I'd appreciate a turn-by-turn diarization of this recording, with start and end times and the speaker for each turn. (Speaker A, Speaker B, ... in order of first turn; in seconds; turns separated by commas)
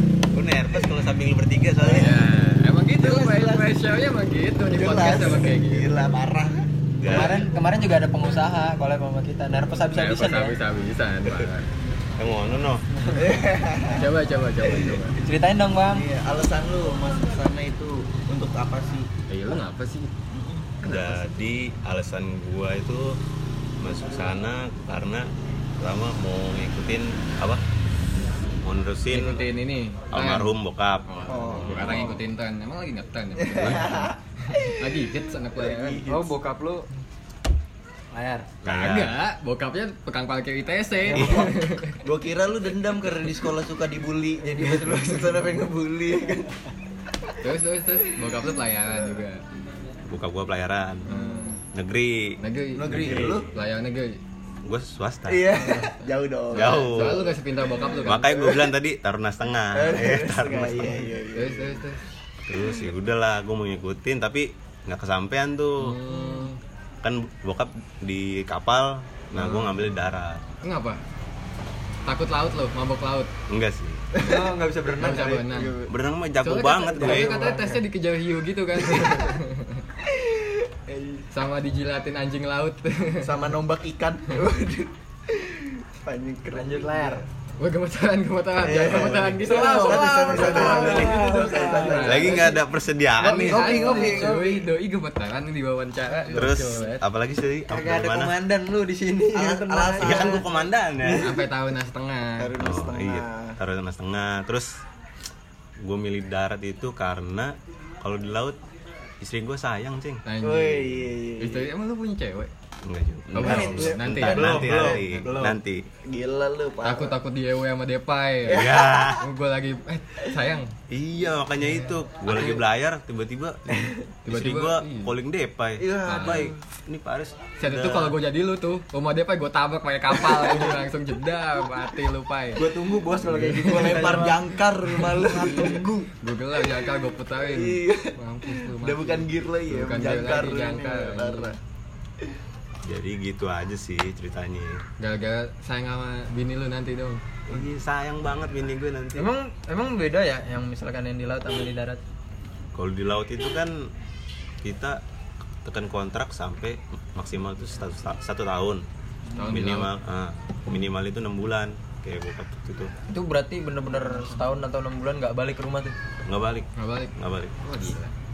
Speaker A: 0.3-2.2, Speaker B: 0.7-1.0, Speaker B: 1.8-2.3, Speaker C: 1.9-6.0, Speaker B: 3.0-3.7, Speaker B: 4.7-7.5, Speaker A: 7.0-7.5, Speaker D: 7.0-10.6, Speaker C: 9.9-11.7, Speaker A: 12.2-12.8, Speaker D: 12.9-13.3, Speaker B: 13.1-14.1, Speaker C: 13.9-15.2, Speaker B: 14.6-15.0, Speaker D: 15.2-16.1, Speaker B: 15.9-19.1, Speaker C: 19.3-20.1, Speaker B: 20.3-21.0, Speaker A: 20.8-23.2, Speaker A: 23.8-27.6, Speaker A: 28.6-29.4, Speaker C: 29.1-30.5, Speaker A: 30.1-32.1, Speaker C: 31.1-36.0, Speaker B: 31.3-32.2, Speaker B: 33.4-36.3, Speaker A: 33.6-33.9, Speaker D: 36.1-36.9, Speaker D: 38.1-38.5, Speaker A: 38.6-39.1, Speaker C: 38.6-42.0, Speaker B: 41.1-46.5, Speaker A: 41.1-41.5, Speaker D: 44.4-45.6, Speaker C: 47.4-49.4, Speaker A: 50.1-51.1, Speaker C: 51.0-51.6, Speaker B: 51.1-51.5, Speaker A: 51.7-53.6, Speaker C: 52.4-54.2, Speaker B: 52.7-53.5, Speaker A: 54.6-55.5, Speaker B: 55.3-58.7, Speaker C: 55.5-58.4, Speaker A: 56.5-57.3, Speaker A: 58.0-61.1, Speaker B: 59.7-61.8, Speaker C: 61.3-62.0, Speaker A: 62.5-66.0, Speaker C: 65.8-66.6, Speaker A: 67.0-70.4, Speaker C: 69.3-69.7, Speaker C: 70.6-71.0, Speaker C: 72.0-73.3, Speaker A: 73.5-74.0, Speaker B: 74.1-75.9, Speaker D: 74.2-75.5, Speaker C: 75.0-75.7, Speaker A: 75.8-77.3, Speaker C: 76.4-79.8, Speaker D: 77.0-77.8, Speaker B: 80.0-81.3, Speaker C: 81.3-83.4, Speaker B: 83.2-87.2, Speaker D: 86.5-87.2, Speaker C: 87.6-91.1, Speaker B: 88.6-92.6, Speaker D: 89.4-92.2, Speaker A: 90.4-91.2, Speaker C: 91.6-92.6, Speaker A: 92.0-94.0, Speaker C: 93.2-97.0, Speaker B: 93.2-94.7, Speaker D: 93.9-94.3, Speaker B: 96.2-96.8, Speaker A: 96.3-98.3, Speaker D: 97.7-100.4, Speaker B: 99.3-100.5, Speaker A: 100.0-101.4, Speaker C: 101.2-102.5, Speaker B: 102.4-103.6, Speaker A: 102.6-104.8, Speaker A: 105.8-108.6, Speaker A: 109.2-110.2, Speaker C: 110.2-112.5, Speaker B: 110.4-111.7, Speaker A: 112.8-115.8, Speaker C: 113.3-114.6, Speaker B: 113.4-115.5, Speaker D: 114.3-115.5, Speaker B: 116.0-117.2, Speaker C: 116.8-120.7, Speaker B: 118.5-119.1, Speaker A: 118.5-119.3, Speaker A: 120.9-128.2, Speaker C: 121.6-122.5, Speaker C: 124.3-125.1, Speaker B: 125.8-126.5, Speaker C: 126.0-126.5, Speaker C: 127.6-132.7, Speaker B: 130.2-130.7, Speaker B: 132.6-136.1, Speaker D: 132.6-135.2, Speaker C: 133.3-134.3, Speaker C: 135.2-141.5, Speaker B: 137.5-141.6, Speaker A: 142.8-144.8, Speaker C: 145.0-147.2, Speaker A: 147.5-149.3, Speaker D: 149.2-152.0, Speaker A: 152.7-153.9, Speaker A: 154.6-155.0, Speaker A: 155.6-158.8, Speaker B: 159.3-159.6, Speaker C: 159.3-159.9, Speaker A: 159.5-162.9, Speaker D: 163.1-165.9, Speaker B: 164.0-164.4, Speaker A: 166.2-167.6, Speaker C: 166.8-168.1